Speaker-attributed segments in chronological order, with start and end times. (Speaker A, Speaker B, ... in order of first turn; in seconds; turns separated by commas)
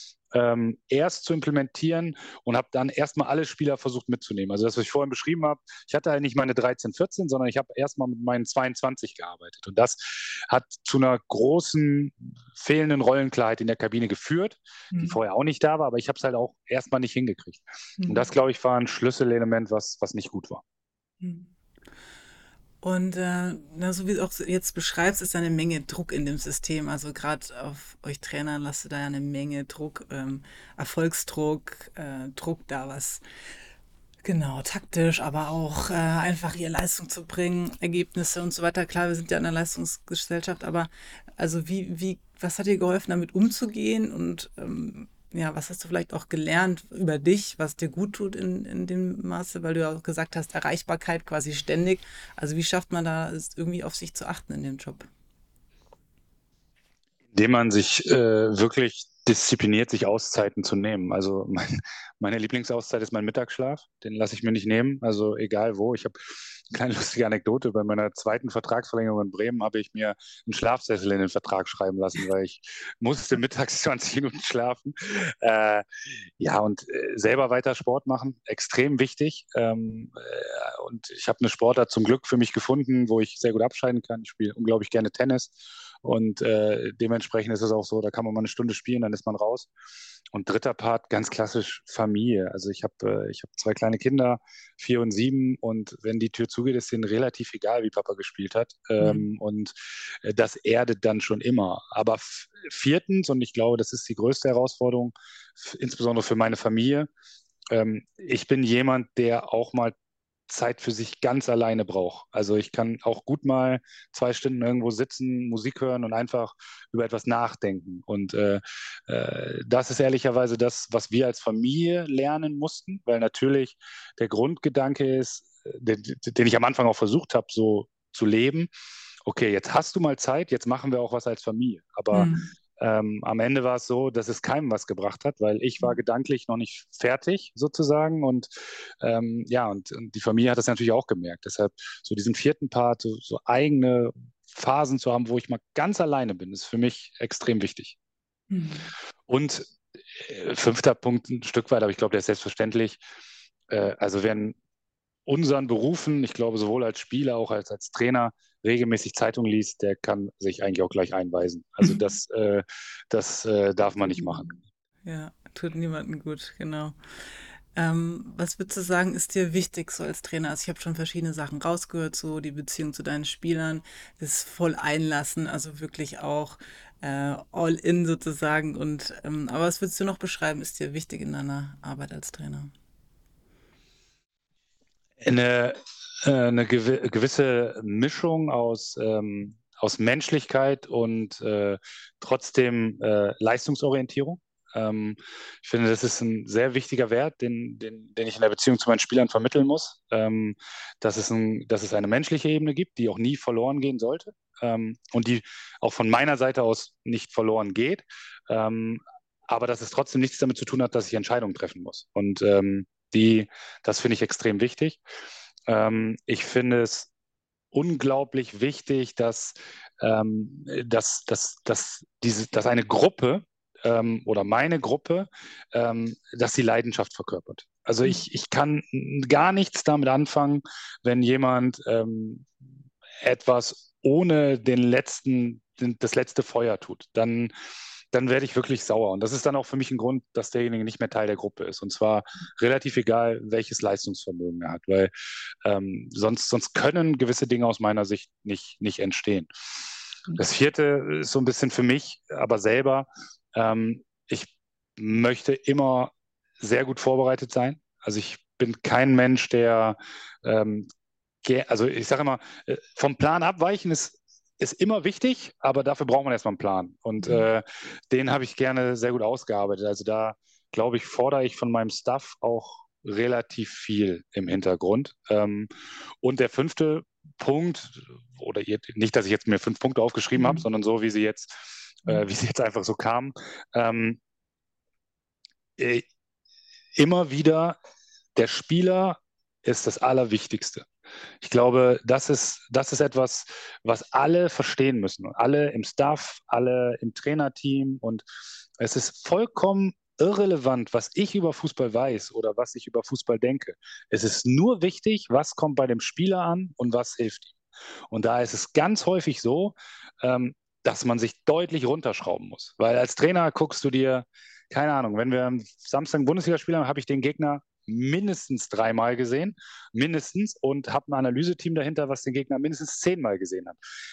Speaker A: 0.3-20.6, Speaker B: 14.9-15.2, Speaker B: 18.0-18.3, Speaker B: 21.2-21.5, Speaker B: 22.8-33.2, Speaker B: 34.2-55.1, Speaker A: 57.3-89.7, Speaker A: 90.3-107.1, Speaker B: 99.0-99.2, Speaker A: 107.7-110.0, Speaker A: 110.5-128.7, Speaker A: 129.3-138.5, Speaker B: 132.1-132.5, Speaker A: 139.0-148.0, Speaker B: 148.5-148.9, Speaker A: 149.3-153.0, Speaker A: 153.7-154.6, Speaker A: 155.3-164.5, Speaker B: 164.2-164.5, Speaker B: 165.1-166.9, Speaker B: 167.8-182.7, Speaker A: 185.2-215.0, Speaker A: 215.7-217.1, Speaker A: 217.7-232.5, Speaker A: 233.2-237.5, Speaker A: 238.1-245.1, Speaker A: 245.6-249.5, Speaker A: 250.4-260.9, Speaker A: 261.4-275.7, Speaker B: 267.2-267.5, Speaker A: 276.2-284.2, Speaker B: 280.4-280.6, Speaker A: 285.8-286.1, Speaker A: 287.0-287.8, Speaker A: 288.4-290.9, Speaker A: 291.4-298.2, Speaker A: 298.8-307.5, Speaker A: 308.1-323.8